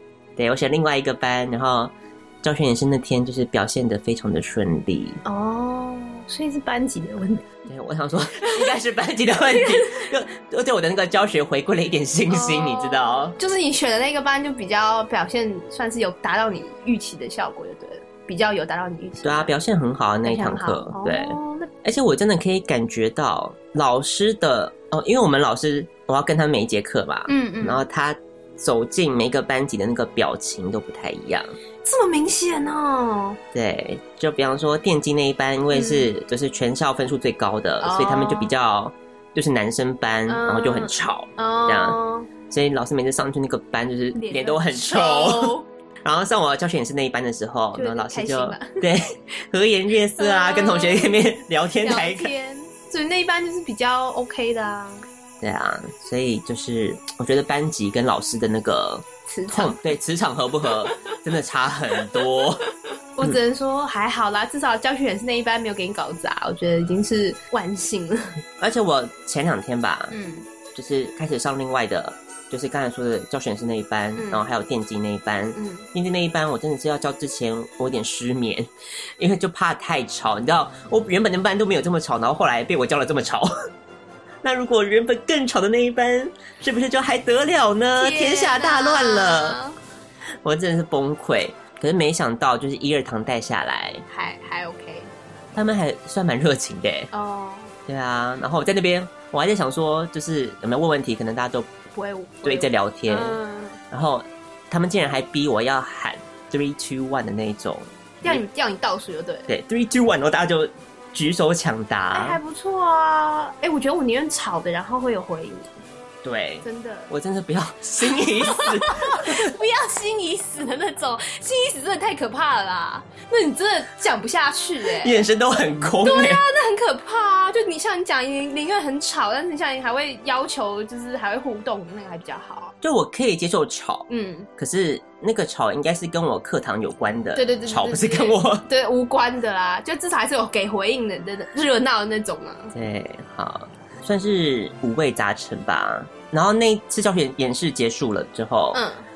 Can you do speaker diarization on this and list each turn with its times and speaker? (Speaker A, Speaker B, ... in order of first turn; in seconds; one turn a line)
Speaker A: 0.4-5.2
Speaker B: 5.2-7.5
Speaker A: 7.7-13.3
Speaker B: 8.4-8.7
Speaker B: 9.4-10.0
Speaker B: 12.3-19.5
Speaker A: 19.2-31.6
Speaker B: 20.2-21.7
Speaker B: 27.3-27.8
Speaker B: 31.8-33.4
Speaker A: 33.5-42.0
Speaker B: 35.7-36.1
Speaker B: 37.8-38.5
Speaker B: 40.3-42.3
Speaker A: 42.5-52.3
Speaker B: 44.1-45.7
Speaker B: 47.7-48.8
Speaker B: 50.2-51.2
Speaker B: 51.8-55.0
Speaker A: 55.4-62.7
Speaker B: 59.3-59.8
Speaker B: 63.2-68.3
Speaker A: 68.6-70.1
Speaker B: 70.1-70.5
Speaker A: 70.7-78.7
Speaker B: 74.2-74.5
Speaker B: 75.5-75.9
Speaker A: 79.2-83.5
Speaker A: 84.4-89.6
Speaker B: 88.0-89.8
Speaker A: 90.4-94.0
Speaker B: 94.1-95.1
Speaker A: 95.5-97.1
Speaker B: 97.1-97.7
Speaker A: 97.9-101.7
Speaker B: 101.9-103.8
Speaker A: 102.4-103.4
Speaker A: 103.9-108.4
Speaker B: 108.2-109.5
Speaker A: 109.5-112.4
Speaker B: 112.1-115.8
Speaker A: 116.2-119.5
Speaker B: 116.6-117.1
Speaker B: 118.1-125.2
Speaker A: 125.0-126.4
Speaker B: 126.0-132.7
Speaker A: 132.8-138.7
Speaker B: 134.1-134.5
Speaker B: 137.3-142.7
Speaker A: 142.7-148.8
Speaker B: 148.7-149.0